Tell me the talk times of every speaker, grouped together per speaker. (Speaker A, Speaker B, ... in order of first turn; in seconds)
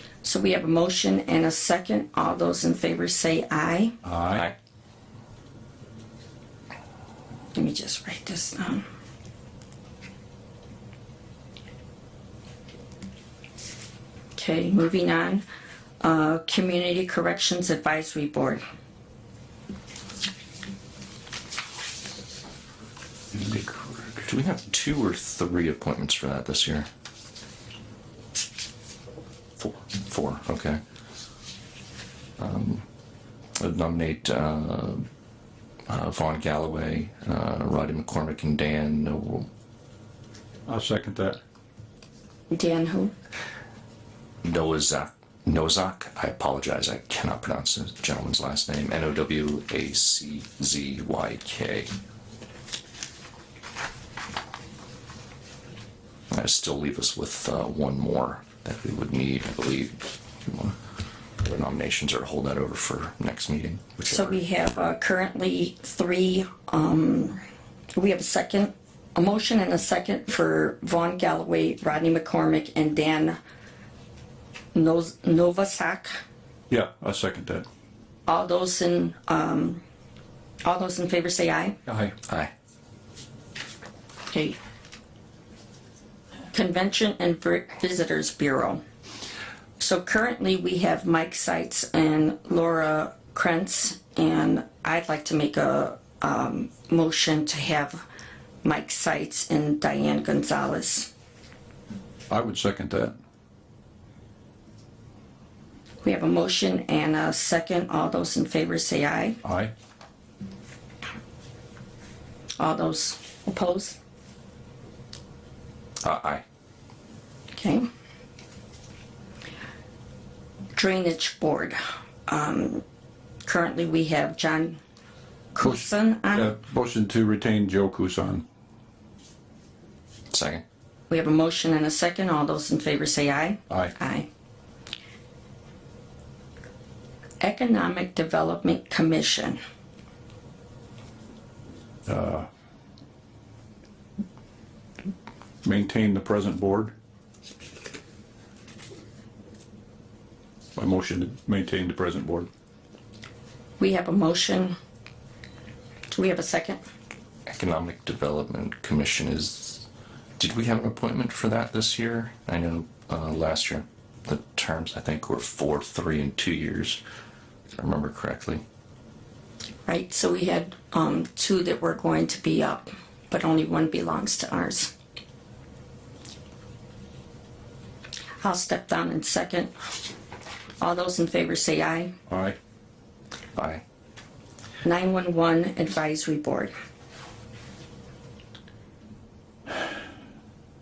Speaker A: 0.2-4.0, 7.5-8.8, 14.3-15.4, 16.0-18.6, 42.5-43.1, 64.1-67.4, 68.0-73.4, 74.8-76.1, 78.3-79.8, 80.6-81.8, 84.3-84.6, 86.5-88.8, 89.8-98.0, 98.6-101.1, 106.0-109.4, 112.6-114.0, 117.5-117.8, 120.7-122.8, 123.5-124.8, 125.5-126.5, 131.1-134.3, 137.4-139.6, 153.8-154.8, 156.1-156.8, 169.9-174.9, 178.4-179.7, 180.8-182.1, 184.8-186.7
Speaker B: 4.0-4.5, 23.4-23.9, 40.7-41.4, 76.7-77.7, 81.9-82.1, 102.3-103.2, 109.4-109.7, 126.3-128.4, 142.1-142.5, 145.6-146.9, 150.8-152.5, 182.3-182.6
Speaker C: 24.3-26.9, 29.6-30.8, 32.4-32.9, 33.6-35.1, 35.9-39.5, 44.4-51.9, 56.3-60.8, 61.4-64.4, 116.0-116.4, 130.3-130.6, 157.5-159.9, 160.4-167.0, 167.8-168.6, 183.6-183.8